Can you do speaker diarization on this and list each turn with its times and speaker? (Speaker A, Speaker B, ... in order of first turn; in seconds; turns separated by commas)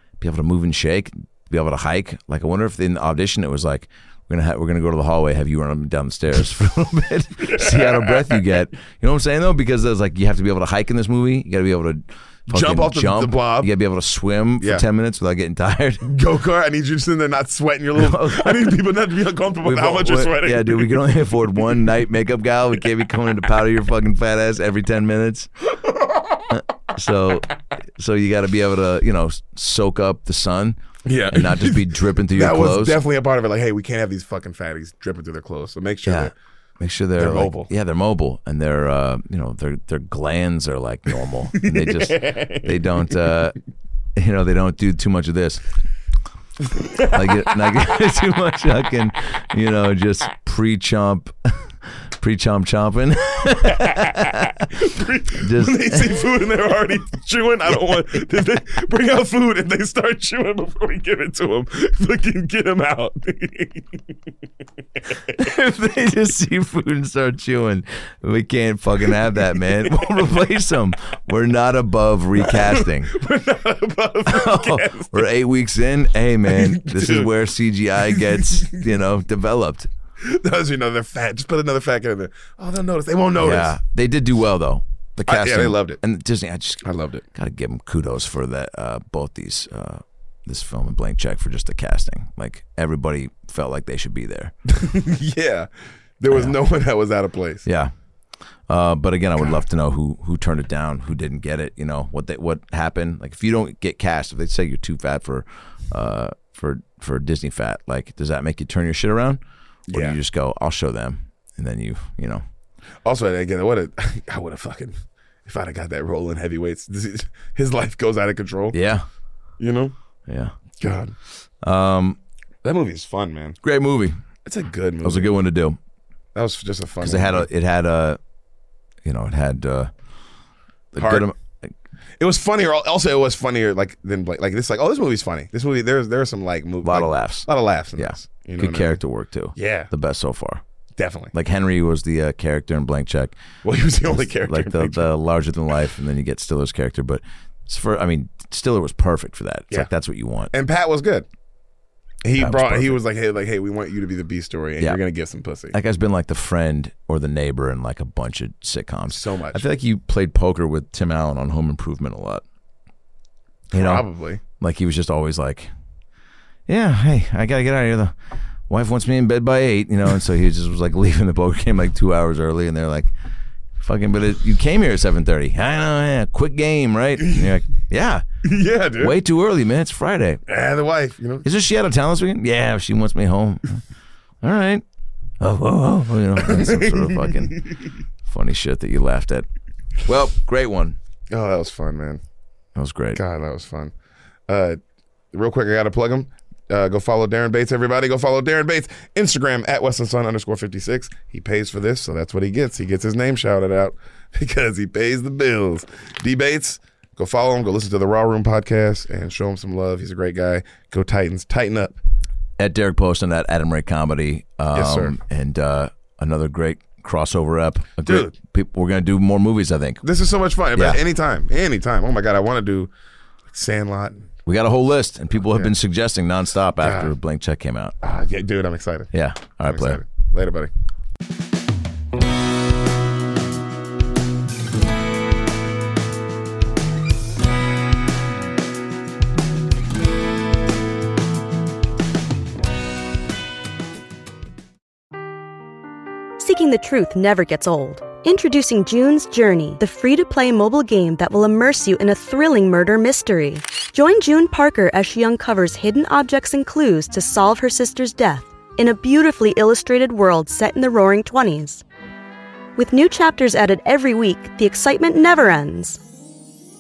Speaker A: 0.2-16.1, Speaker B: 7.4-8.4, Speaker B: 12.5-13.7, Speaker B: 16.0-21.1, Speaker A: 17.9-18.8, Speaker A: 19.6-25.5, Speaker B: 25.9-26.4, Speaker A: 26.5-30.8, Speaker B: 31.1-36.3, Speaker A: 31.3-33.0, Speaker A: 36.0-43.6, Speaker B: 37.2-37.7, Speaker B: 41.5-42.8, Speaker A: 44.2-45.6, Speaker B: 46.7-47.6, Speaker A: 47.1-51.7, Speaker A: 52.2-54.7, Speaker B: 53.8-63.9, Speaker A: 55.3-56.4, Speaker A: 57.7-58.1, Speaker A: 65.3-73.1, Speaker B: 72.4-75.3, Speaker A: 74.3-79.9, Speaker B: 76.5-77.3, Speaker B: 78.1-78.8, Speaker B: 80.2-83.8, Speaker A: 83.4-94.5, Speaker B: 85.3-86.0, Speaker B: 86.8-87.2, Speaker B: 94.7-95.7, Speaker B: 96.2-97.7, Speaker A: 96.3-96.6, Speaker A: 97.6-97.9, Speaker A: 98.7-112.4, Speaker B: 109.9-110.2, Speaker B: 113.0-118.8, Speaker A: 118.7-119.0, Speaker B: 119.6-119.9, Speaker A: 120.3-120.5, Speaker B: 120.8-121.1, Speaker A: 121.6-122.2, Speaker B: 122.6-123.6, Speaker A: 123.6-124.2, Speaker B: 124.5-125.4, Speaker A: 125.0-125.8, Speaker B: 126.3-127.5, Speaker A: 127.0-128.2, Speaker A: 129.1-129.9, Speaker A: 130.9-131.7, Speaker B: 131.0-131.3, Speaker B: 132.2-139.0, Speaker A: 136.8-140.6, Speaker B: 139.6-139.9, Speaker B: 141.0-141.3, Speaker A: 141.3-143.3, Speaker B: 143.6-145.1, Speaker A: 144.1-150.5, Speaker B: 150.5-151.3, Speaker B: 152.2-155.8, Speaker A: 152.3-153.0, Speaker A: 155.7-162.4, Speaker B: 159.1-159.6, Speaker A: 163.7-164.1, Speaker B: 163.7-164.4, Speaker A: 164.6-165.7, Speaker A: 166.7-168.1, Speaker A: 168.7-173.1, Speaker A: 173.8-178.2, Speaker B: 177.2-177.5, Speaker B: 178.4-179.2, Speaker A: 179.0-180.4, Speaker B: 180.5-181.5, Speaker A: 181.4-183.8, Speaker A: 184.4-184.8, Speaker A: 185.4-187.7, Speaker B: 186.4-187.7, Speaker A: 188.3-189.5, Speaker A: 190.0-191.0, Speaker B: 191.3-192.2, Speaker A: 192.8-193.2, Speaker B: 193.1-193.9, Speaker B: 194.5-194.8, Speaker B: 195.3-212.0, Speaker A: 212.6-220.0, Speaker B: 214.7-215.2, Speaker B: 218.0-218.3, Speaker B: 220.0-222.9, Speaker B: 223.5-224.3, Speaker A: 224.5-227.9, Speaker B: 226.8-227.1, Speaker B: 228.0-229.1, Speaker A: 229.1-230.0, Speaker B: 229.6-230.7, Speaker C: 246.4-261.8, Speaker C: 262.8-266.0